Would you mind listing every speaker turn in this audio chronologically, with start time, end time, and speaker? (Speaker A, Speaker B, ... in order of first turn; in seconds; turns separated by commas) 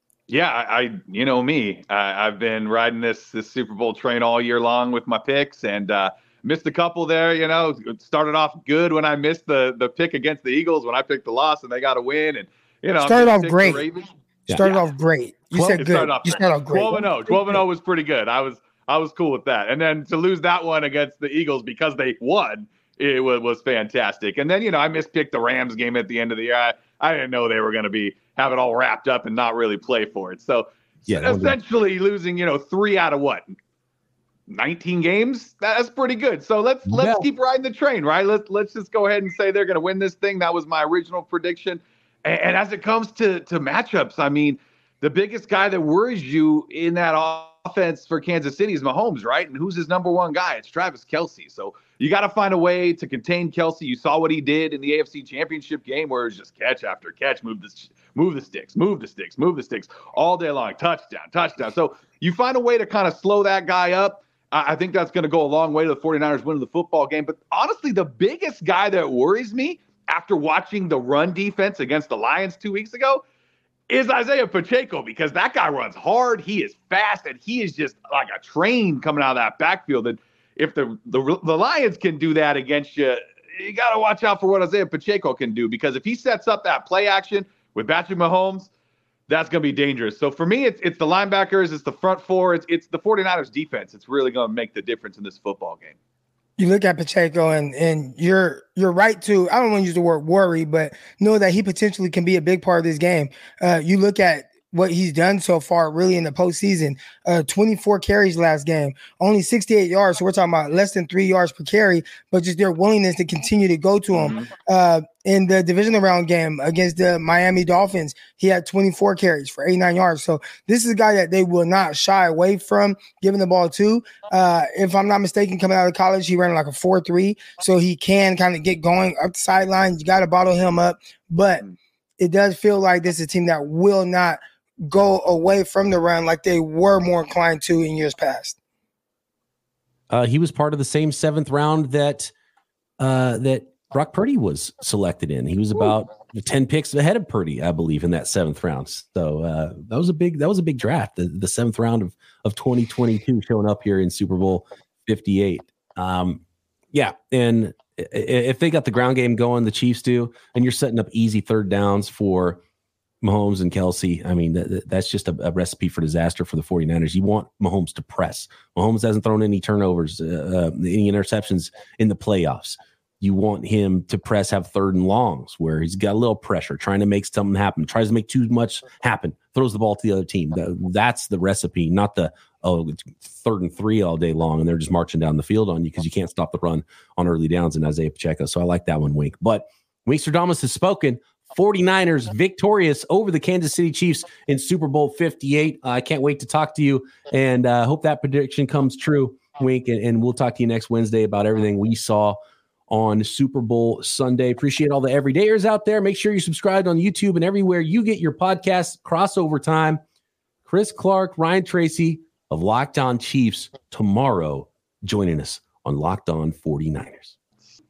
Speaker A: 0.3-14.8, Speaker B: 13.0-13.8, Speaker B: 14.5-17.6, Speaker A: 15.8-33.5, Speaker C: 31.1-31.6, Speaker A: 34.5-73.2, Speaker C: 36.9-37.2, Speaker A: 73.9-88.7, Speaker A: 89.3-96.0, Speaker B: 96.6-131.6, Speaker A: 114.1-114.5, Speaker B: 132.2-138.6, Speaker C: 140.1-142.3, Speaker C: 143.0-156.4, Speaker C: 156.9-162.6, Speaker C: 163.2-202.4, Speaker C: 202.9-210.0, Speaker C: 210.7-217.3